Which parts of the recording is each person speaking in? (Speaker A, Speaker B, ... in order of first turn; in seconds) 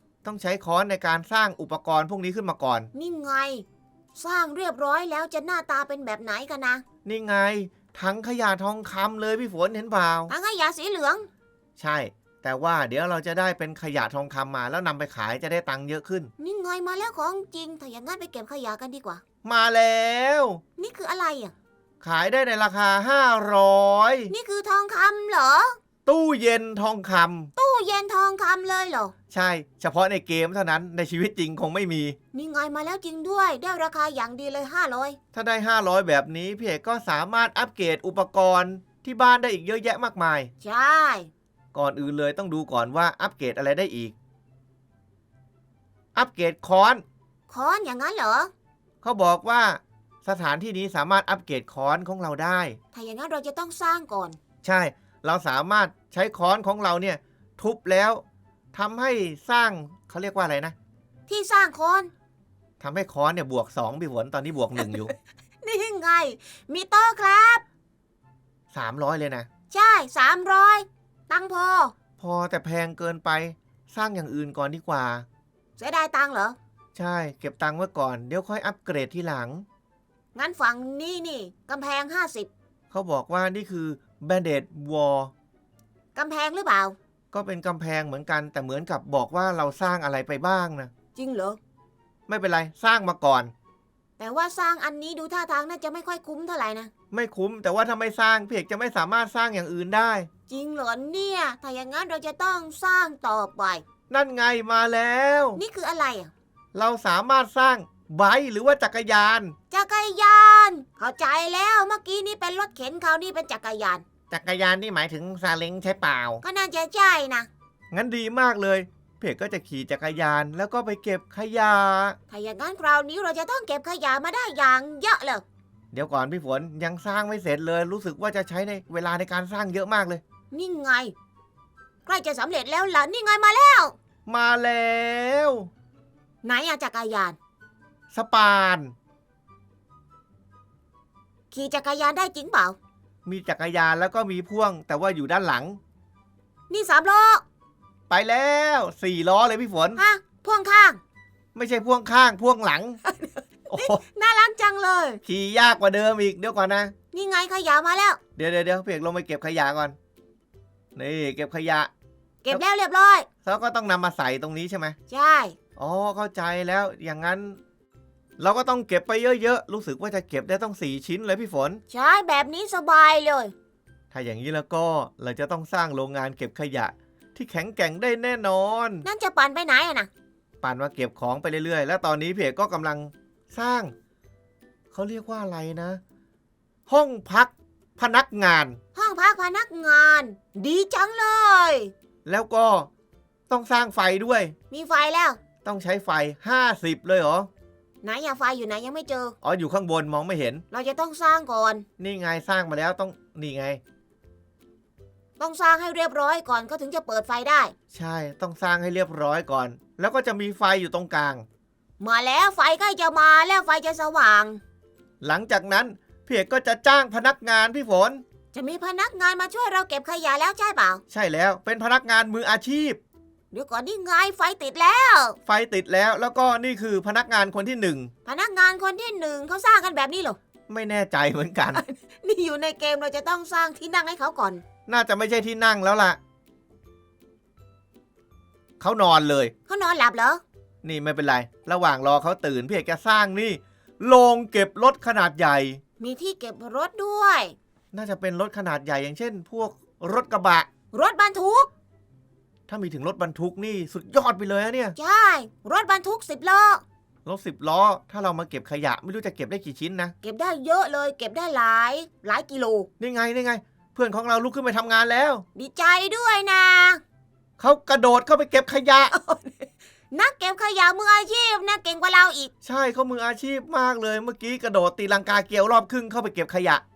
Speaker A: 0.2-2.9, 7.0-10.3, 11.8-16.3, 19.4-20.6, 22.0-24.3, 26.1-27.5, 29.3-32.2, 35.3-40.5, 41.7-44.1, 46.1-47.0, 49.0-52.8, 54.6-58.2, 58.7-60.8, 62.8-65.1, 68.7-69.5, 72.2-75.3, 77.0-79.7, 82.9-85.3, 87.3-90.9, 92.3-93.5, 97.1-100.3, 104.1-105.6, 106.7-109.5, 114.3-116.4, 117.9-122.2, 125.9-130.2, 134.3-135.7, 138.1-138.9, 143.2-145.8, 148.1-150.0, 151.6-153.0, 153.7-154.0, 155.2-156.9, 158.4-160.0, 161.0-161.9, 163.4-165.0, 165.8-167.6, 168.4-171.8, 174.1-179.1, 180.6-183.9, 184.9-186.0, 186.9-188.8, 192.2-192.9, 193.5-194.6, 195.6-197.5, 199.4-200.6, 202.0-203.8, 207.9-211.5, 215.2-218.2, 221.1-223.0, 225.5-228.1, 230.7-231.8, 234.9-236.2, 238.8-239.5, 240.8-245.8, 247.9-250.7, 252.7-255.0, 257.2-260.1, 263.0-265.4, 267.6-269.1, 272.6-276.8
Speaker B: 2.9-3.6, 4.2-6.8, 10.3-11.3, 16.4-19.2, 20.8-21.5, 24.3-25.8, 27.6-29.1, 32.3-35.2, 40.6-41.3, 47.5-48.5, 52.9-54.4, 61.3-62.1, 65.6-67.6, 69.7-71.9, 75.8-76.6, 80.3-82.5, 86.2-87.0, 91.2-91.6, 94.2-96.9, 100.5-103.8, 105.6-106.3, 109.7-114.0, 116.4-117.5, 122.3-125.4, 130.5-131.1, 132.1-133.9, 136.4-137.4, 141.5-142.8, 146.7-147.4, 150.0-151.0, 153.1-155.2, 157.1-158.2, 162.4-163.3, 165.1-165.6, 171.9-173.5, 179.0-180.1, 188.9-191.9, 194.7-195.4, 198.0-199.4, 200.7-201.8, 205.4-207.7, 212.0-214.6, 218.5-221.0, 223.5-225.4, 228.2-230.4, 231.7-234.6, 239.7-240.4, 246.0-247.6, 250.9-251.7, 255.0-256.8, 260.2-262.9, 265.6-267.0, 269.1-272.5